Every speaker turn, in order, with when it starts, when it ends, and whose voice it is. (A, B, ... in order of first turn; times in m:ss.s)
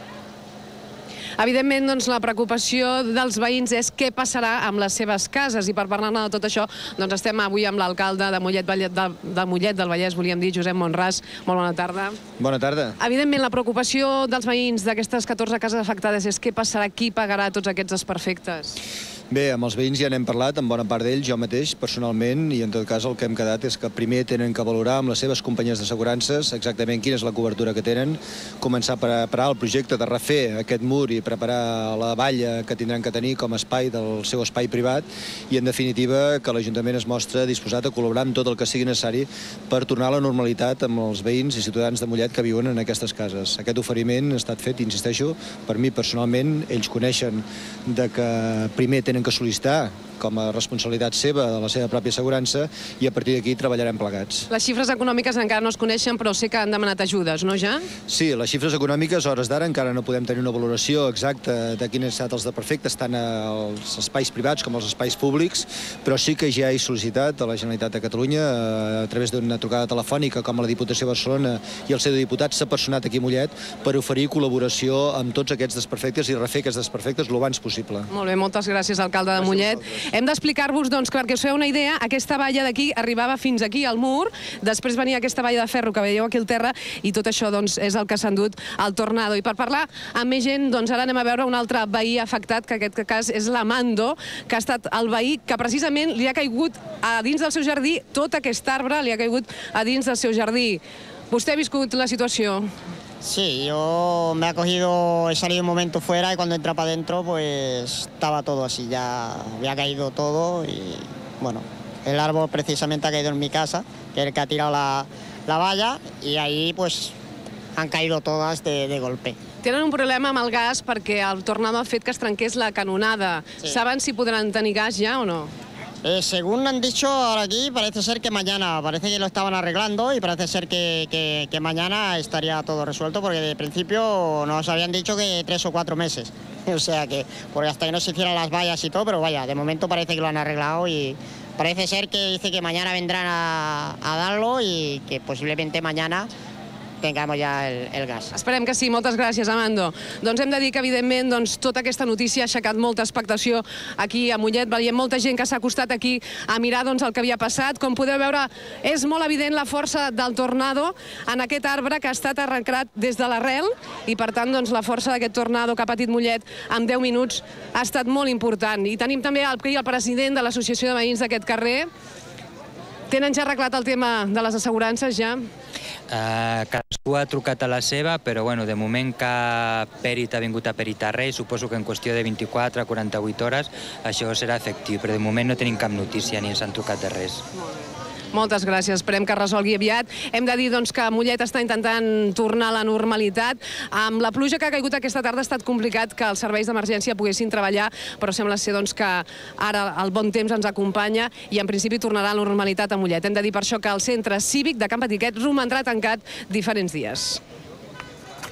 0:01.4-0:12.2 A
0:12.4-0:13.0 B
0:13.0-0:18.8 A
0:19.3-0:54.5 B
0:54.5-0:57.9 A
0:58.1-1:18.1 B
1:18.1-1:42.7 A
1:43.2-1:57.2 C
1:57.8-1:59.4 C
1:59.6-2:05.5 A
2:06.0-2:26.3 C
2:27.0-2:28.3 C
2:28.3-2:51.9 A
2:53.1-2:55.4 A
2:56.1-3:07.4 D
3:08.3-3:27.4 A